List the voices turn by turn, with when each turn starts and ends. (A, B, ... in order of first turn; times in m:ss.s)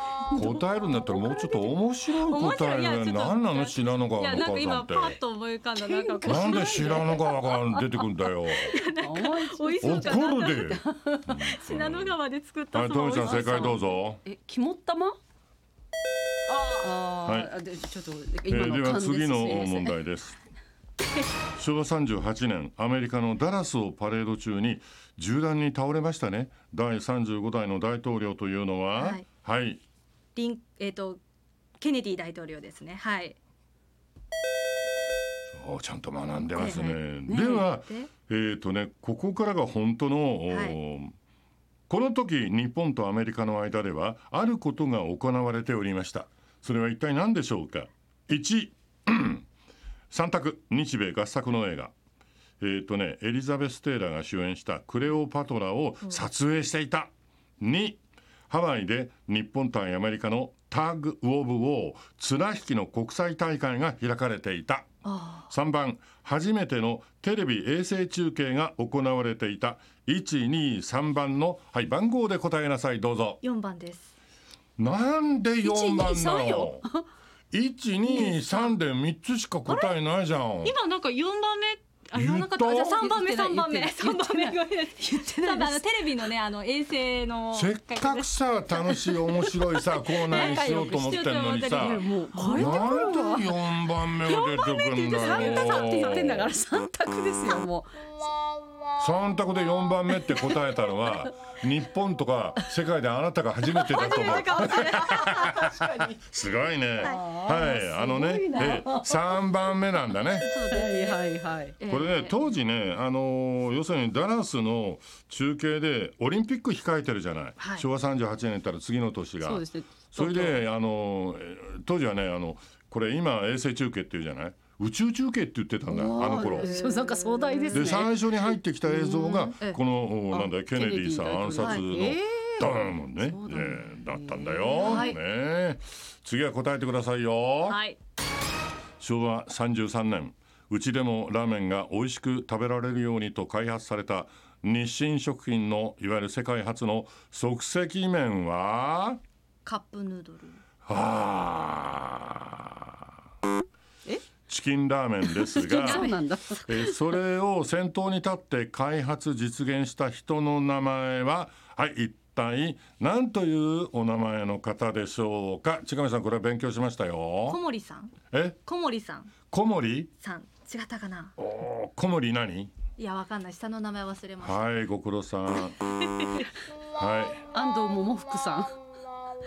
0:00.3-0:05.2 A
0:02.1-0:07.2 B
0:05.8-0:07.6 C
0:06.2-0:08.7 A
0:08.5-0:13.8 B
0:09.0-0:11.2 C
0:09.8-0:12.2 A
0:12.7-0:14.2 A
0:13.2-0:15.2 C
0:16.5-0:19.9 C
0:17.2-0:17.5 A
0:18.5-0:20.4 A
0:21.6-0:29.8 A
0:28.9-0:29.2 B
0:30.4-0:31.2 B
0:31.8-0:33.4 B
0:35.5-0:41.2 A
0:36.5-0:38.1 B
0:37.3-0:37.6 C
0:40.5-0:40.8 B
0:41.9-0:49.5 A
0:50.1-0:51.9 A
0:52.6-1:04.9 A
1:05.0-1:05.5 B
1:05.5-1:13.4 A
1:13.4-1:14.1 B
1:14.8-1:16.8 A
1:15.6-1:17.1 C
1:17.5-1:20.8 A
1:18.1-1:18.8 B
1:19.7-1:20.0 B
1:20.6-1:33.0 B
1:22.2-1:23.0 A
1:23.0-1:25.9 C
1:27.5-1:36.5 A
1:30.3-1:33.6 C
1:34.2-1:36.3 B
1:34.9-1:38.1 C
1:39.0-1:50.5 A
1:40.2-1:40.8 C
1:43.9-1:46.1 B
1:47.0-1:49.4 C
1:50.4-1:51.2 B
1:50.7-1:51.8 C
1:51.8-1:52.4 B
1:51.9-2:06.7 A
1:57.6-1:57.9 B
1:59.4-2:00.6 C
2:05.9-2:08.1 C
2:06.4-2:08.1 B
2:07.7-2:17.8 A
2:08.9-2:09.5 C
2:10.3-2:15.1 C
2:11.6-2:11.9 B
2:14.8-2:15.2 B
2:17.6-2:18.0 B
2:19.0-2:29.2 A
2:29.6-2:30.6 B
2:30.9-2:33.0 A
2:34.5-2:36.0 A
2:35.2-2:37.1 C
2:35.8-2:36.2 B
2:36.6-2:47.6 A
2:47.5-2:49.4 B
2:48.3-2:48.6 A
2:49.5-2:50.1 A
2:50.2-2:51.4 B
2:51.4-2:52.7 A
2:53.0-2:54.7 B
2:54.4-2:55.8 A
2:55.6-2:56.5 B
2:57.0-2:57.4 A
2:57.5-2:58.8 C